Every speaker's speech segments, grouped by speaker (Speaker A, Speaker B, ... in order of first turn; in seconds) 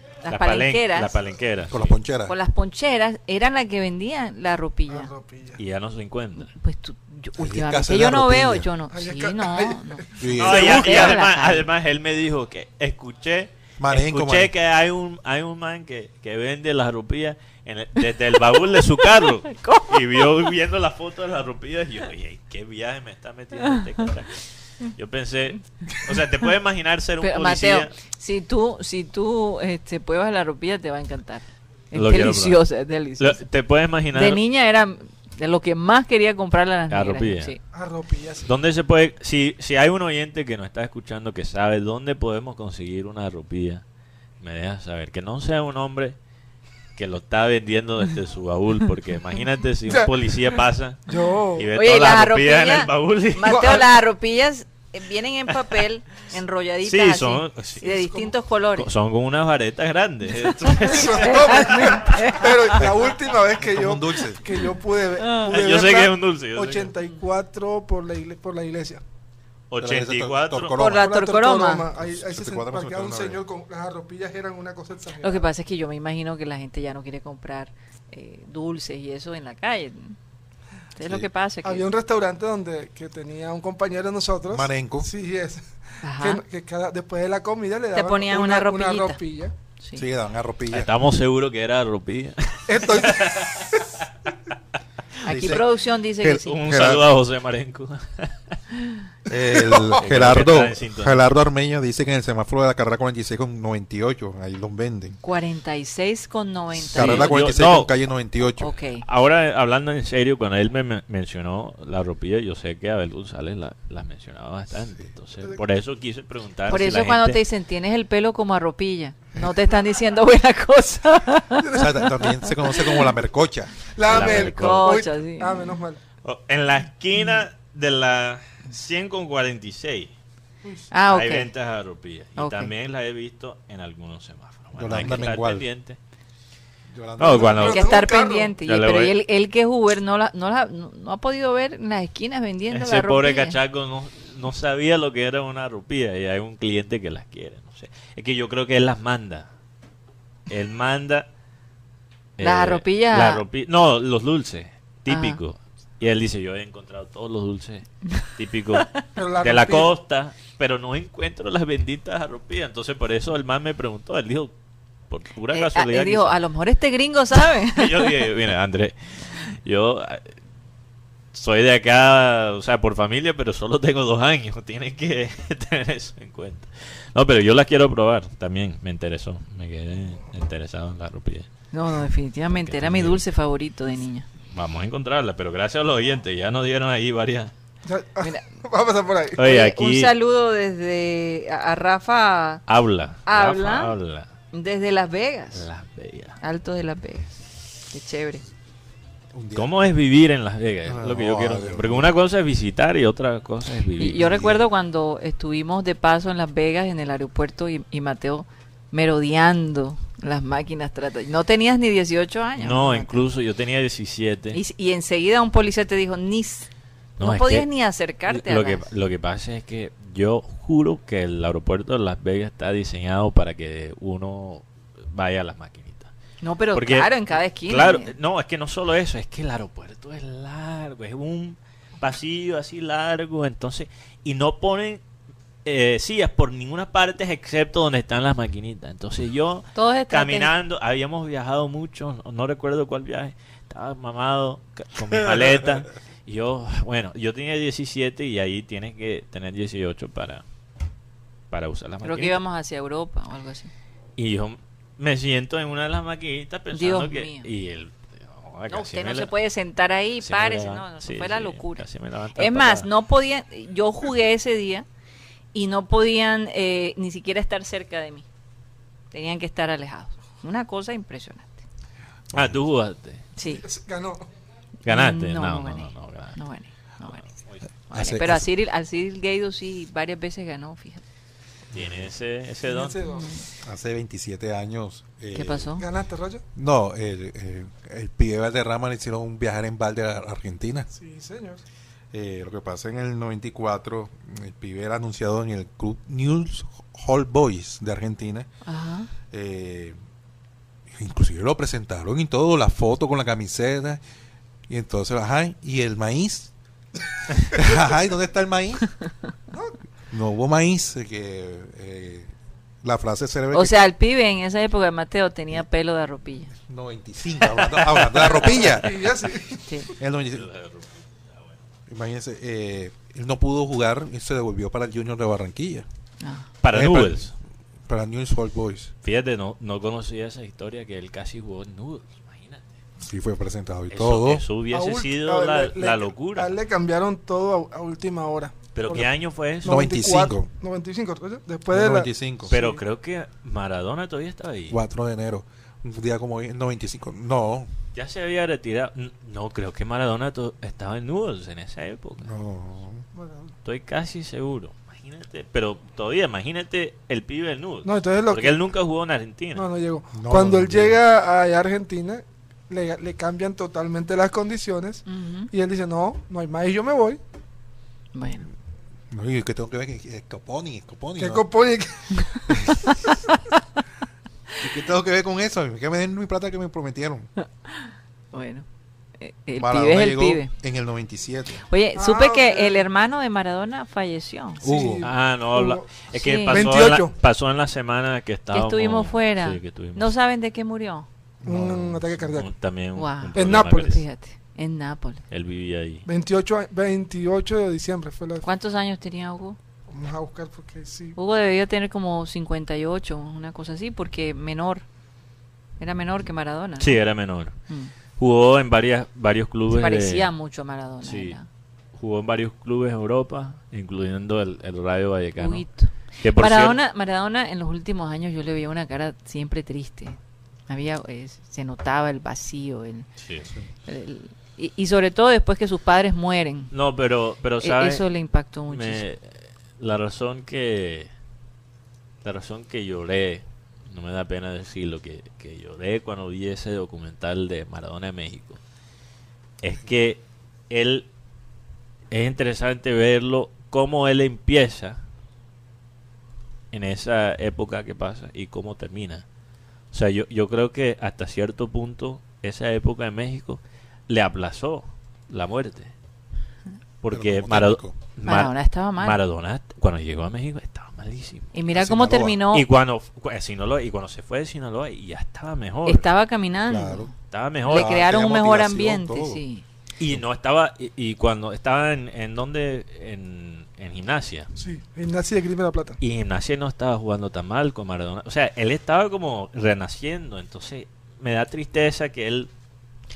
Speaker A: 0.2-1.2, 2.3-5.1, 6.3-11.7, 19.0-20.3, 27.2-33.4, 34.1-37.6, 51.7-58.9, 60.4-62.8, 70.8-71.9, 75.2-80.2, 81.0-81.8, 86.0-86.4, 87.9-89.2, 89.8-90.0, 95.2-96.6, 105.2-107.3, 108.6-109.0, 116.7-122.9, 124.1-125.8, 130.9-131.5, 132.4-132.7, 137.6-143.6, 152.4-153.4, 155.1-155.4, 165.5-168.2, 181.7-184.2, 189.4-192.6, 193.2-193.9, 194.5-195.7, 196.4-198.4, 204.0-213.2, 214.5-218.8, 226.4-228.1, 239.7-240.5, 252.0-253.7, 256.7-257.5, 258.7-261.8, 262.4-264.8, 265.5-268.2, 269.1-271.6, 273.4-273.6, 274.9-277.3, 277.9-281.0, 283.0-283.4, 285.3-285.8, 298.6-299.1, 313.5-316.5, 319.7-319.9, 326.2-326.5, 365.1-365.5, 368.1-368.5, 377.7-378.6, 379.2-380.5, 381.7-384.6, 386.1-386.9, 388.5-391.1, 392.9-395.2, 398.4-399.6, 401.1-404.8, 405.8-407.0, 409.7-411.5, 415.4-423.1, 423.9-426.7, 427.6-429.0, 458.2-459.2, 461.5-462.6, 465.9-467.1, 467.6-469.6
Speaker B: 0.3-1.9, 5.6-6.5, 10.4-27.9, 31.9-32.6, 33.2-34.4, 36.9-37.5, 38.4-43.8, 44.4-46.1, 46.9-53.8, 56.8-57.8, 58.8-62.0, 65.3-66.9, 69.7-70.7, 90.7-93.9, 96.3-98.5, 100.0-101.3, 106.9-107.9, 109.0-117.4, 124.0-125.0, 126.2-130.1, 131.1-136.0, 137.2-138.0, 138.6-139.1, 142.7-149.5, 150.5-151.3, 152.4-164.5, 165.1-166.4, 167.6-170.4, 171.3-181.5, 182.6-183.2, 184.5-187.5, 189.3-190.1, 192.7-194.3, 195.6-196.4, 199.5-204.5, 212.6-214.6, 217.2-217.7, 218.3-226.1, 226.7-235.0, 235.6-250.4, 251.5-252.4, 254.2-259.3, 260.2-262.9, 272.3-273.2, 274.8-276.4, 277.3-277.6, 281.7-283.0, 320.3-320.9, 326.6-327.3, 329.0-332.6, 333.9-336.6, 338.7-339.8, 342.5-344.8, 347.9-352.3, 353.6-359.6, 385.0-390.1, 392.3-394.0, 395.3-396.1, 406.8-407.5, 408.2-410.3, 411.0-411.4, 411.9-415.7, 416.2-416.8, 423.2-423.5, 426.7-428.0, 428.7-431.1, 432.2-438.6, 439.6-441.1, 442.1-445.0, 446.7-449.2, 449.9-455.9, 457.0-461.5, 462.5-466.1, 467.3-468.0, 470.0-474.5, 476.0-482.5
Speaker C: 1.7-2.3, 7.4-8.7, 10.2-11.0, 13.8-14.5, 62.8-64.5, 69.8-71.1, 71.9-73.4, 84.5-85.1, 90.0-90.9, 95.2-97.1, 99.3-105.2, 106.8-108.7, 121.7-124.3, 134.8-135.7, 136.9-137.8, 199.3-199.7, 200.8-202.1, 204.2-204.6, 277.9-278.4, 281.7-282.0, 283.6-285.7, 286.5-290.9, 292.1-298.5, 299.3-300.0, 300.9-304.0, 304.7-306.5, 307.4-308.9, 310.1-312.3, 312.8-313.8, 316.6-319.3, 319.9-320.5, 321.9-325.8, 326.7-327.3, 327.9-328.9, 333.0-334.4, 339.6-340.5, 341.7-342.5, 344.7-347.7, 352.2-353.1, 360.1-361.0, 369.1-371.5, 372.5-372.9, 374.6-377.3, 379.6-381.6, 384.6-385.1, 391.4-392.4, 457.1-458.0, 461.7-462.4, 466.6-467.1, 467.6-469.4
Speaker D: 4.9-5.6, 8.9-11.1, 37.7-38.5, 51.1-51.7, 53.5-53.8, 57.8-58.3, 60.6-69.0, 70.8-75.5, 81.6-89.5, 92.7-93.9, 99.3-100.0, 121.6-122.3, 123.9-126.0, 137.3-138.5, 159.2-159.9, 187.8-189.4, 273.4-274.2, 282.6-283.3, 285.8-286.4, 290.9-291.6, 318.1-319.7, 334.7-339.1, 339.6-342.8, 353.1-353.5, 357.8-358.6, 359.5-367.2, 371.2-372.1, 381.9-382.9, 384.6-385.8, 386.5-387.1, 391.4-392.5, 393.3-394.0, 396.1-398.4, 399.9-401.2, 474.6-476.0